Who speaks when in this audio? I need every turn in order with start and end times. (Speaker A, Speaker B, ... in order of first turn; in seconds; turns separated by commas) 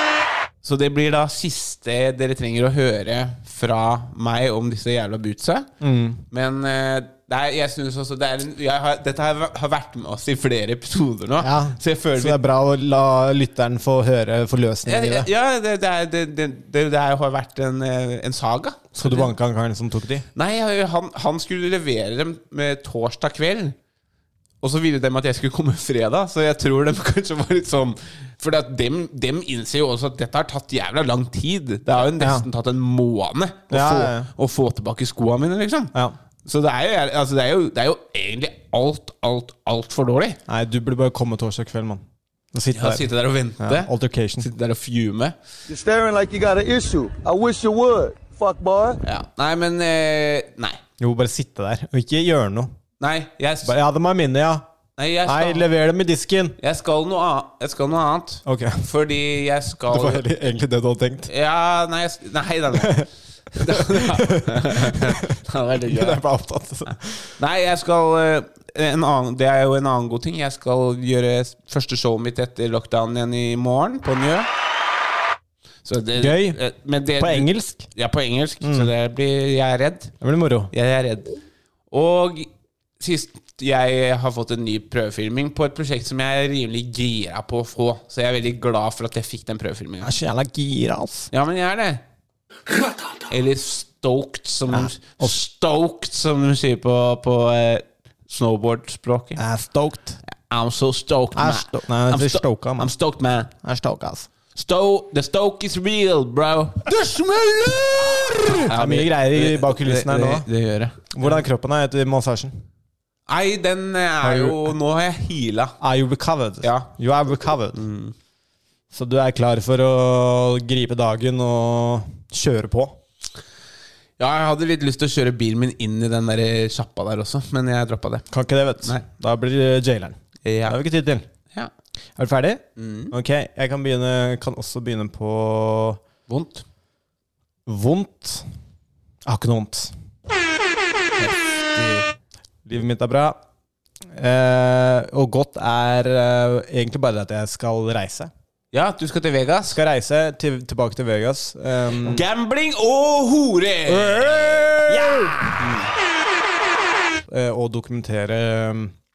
Speaker A: 0.6-5.7, Speaker B: 5.8-6.2, Speaker A: 6.3-12.4, Speaker B: 11.4-15.3, Speaker A: 14.8-19.3, Speaker B: 18.9-20.2, Speaker A: 20.3-23.8, Speaker A: 24.6-35.9, Speaker B: 32.1-32.5, Speaker B: 33.7-34.3, Speaker A: 36.5-40.4, Speaker B: 40.5-44.5, Speaker A: 42.7-45.3, Speaker C: 45.7-49.0, Speaker A: 49.0-50.8, Speaker B: 51.0-52.7, Speaker A: 53.0-53.7, Speaker B: 53.6-54.6, Speaker A: 55.0-55.7, Speaker B: 55.2-56.5, Speaker A: 56.6-60.2, Speaker B: 58.4-58.8, Speaker B: 59.9-61.3, Speaker A: 61.3-63.0, Speaker B: 62.7-63.1, Speaker A: 63.5-66.2, Speaker B: 63.7-67.3, Speaker A: 67.4-74.5, Speaker A: 75.8-80.1, Speaker B: 76.2-76.6, Speaker B: 77.2-77.9, Speaker B: 78.6-78.9, Speaker B: 80.2-80.7, Speaker A: 80.7-81.3, Speaker A: 81.9-82.5, Speaker A: 83.0-90.1, Speaker B: 90.0-91.3, Speaker A: 91.3-92.0, Speaker A: 93.3-99.4, Speaker B: 94.7-95.4, Speaker B: 99.4-100.2, Speaker A: 100.3-103.5, Speaker B: 101.3-102.9, Speaker B: 103.6-104.3, Speaker A: 104.5-111.4, Speaker B: 108.4-110.5, Speaker B: 111.1-112.6, Speaker A: 113.3-115.7, Speaker B: 114.2-114.7, Speaker B: 115.8-117.8, Speaker A: 116.6-116.9, Speaker A: 117.7-118.1, Speaker B: 118.9-123.0, Speaker A: 124.2-128.2, Speaker B: 128.3-131.2, Speaker A: 130.4-130.8, Speaker B: 132.2-136.0, Speaker A: 132.8-133.1, Speaker A: 136.3-136.6, Speaker B: 137.7-138.5, Speaker B: 139.2-139.9, Speaker A: 141.2-142.1, Speaker B: 142.6-143.4, Speaker B: 144.1-148.3, Speaker A: 148.7-149.8, Speaker B: 149.7-152.2, Speaker A: 152.0-155.9, Speaker B: 153.9-155.6, Speaker B: 157.3-158.9